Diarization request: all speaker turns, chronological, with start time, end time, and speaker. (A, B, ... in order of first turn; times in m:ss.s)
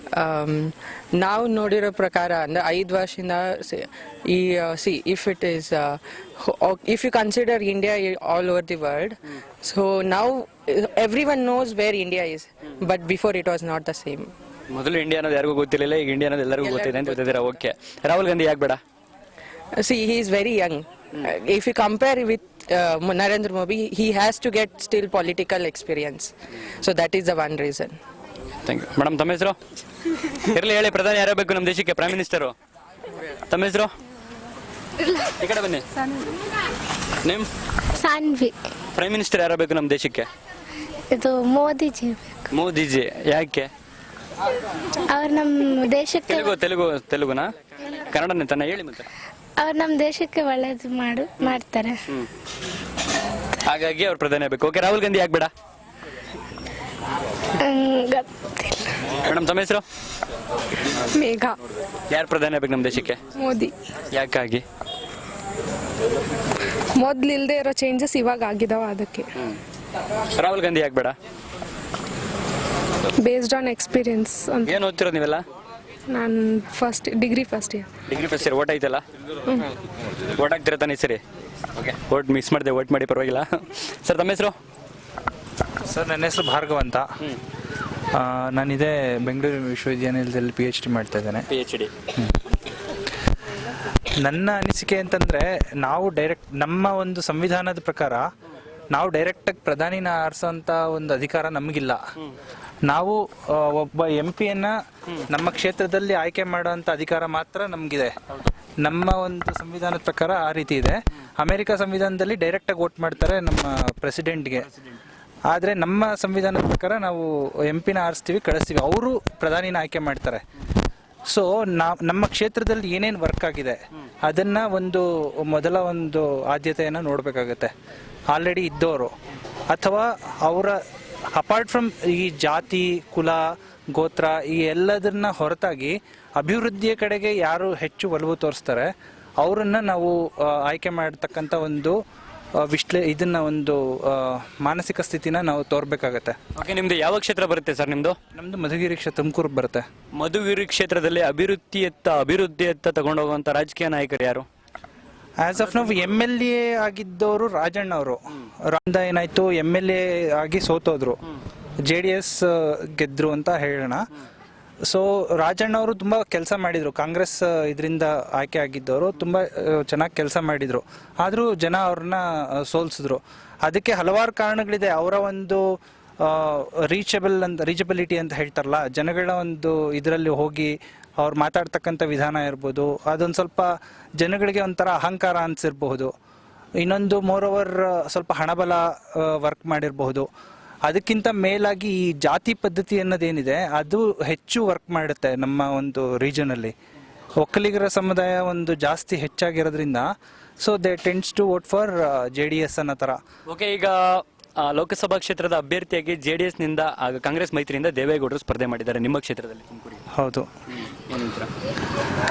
0:00.1-0:14.3 A
0:14.7-0:18.8 B
0:16.6-0:17.3 A
0:19.8-0:28.0 A
0:28.7-0:29.6 B
0:30.5-0:32.5 B
0:33.5-0:33.9 B
0:35.4-0:35.9 B
0:38.0-0:38.5 C
0:39.0-0:40.3 B
0:41.1-0:42.4 C
0:42.5-0:43.7 B
0:45.1-0:46.6 C
0:46.3-0:47.5 B
0:48.1-0:49.1 B
0:49.6-0:52.0 C
0:53.6-0:55.5 B
0:57.6-0:58.9 C
0:59.2-0:59.8 B
1:01.2-1:01.6 D
1:02.1-1:03.2 B
1:03.4-1:03.7 D
1:04.1-1:04.6 B
1:07.0-1:09.3 D
1:10.4-1:11.2 B
1:13.2-1:14.8 D
1:14.6-1:15.4 B
1:16.1-1:17.9 D
1:18.1-1:19.0 B
1:20.4-1:21.2 B
1:21.8-1:24.6 B
1:25.9-1:27.1 E
1:28.1-1:31.5 E
1:31.5-1:31.9 B
1:34.2-1:38.2 E
1:38.9-1:42.0 E
1:42.9-1:44.8 E
1:45.3-1:48.2 E
1:48.8-1:54.7 E
1:55.5-2:00.4 E
2:01.3-2:07.7 E
2:08.3-2:09.1 E
2:09.7-2:10.8 E
2:11.3-2:22.0 E
2:22.6-2:26.4 E
2:26.6-2:28.2 B
2:28.4-2:29.8 E
2:30.2-2:34.5 B
2:35.4-2:41.2 E
2:41.8-2:44.1 E
2:44.9-2:55.6 E
2:56.2-3:06.1 E
3:06.8-3:10.3 E
3:10.9-3:16.7 E
3:17.4-3:23.2 E
3:23.5-3:30.0 B
3:30.1-3:30.5 E
3:30.8-3:31.5 B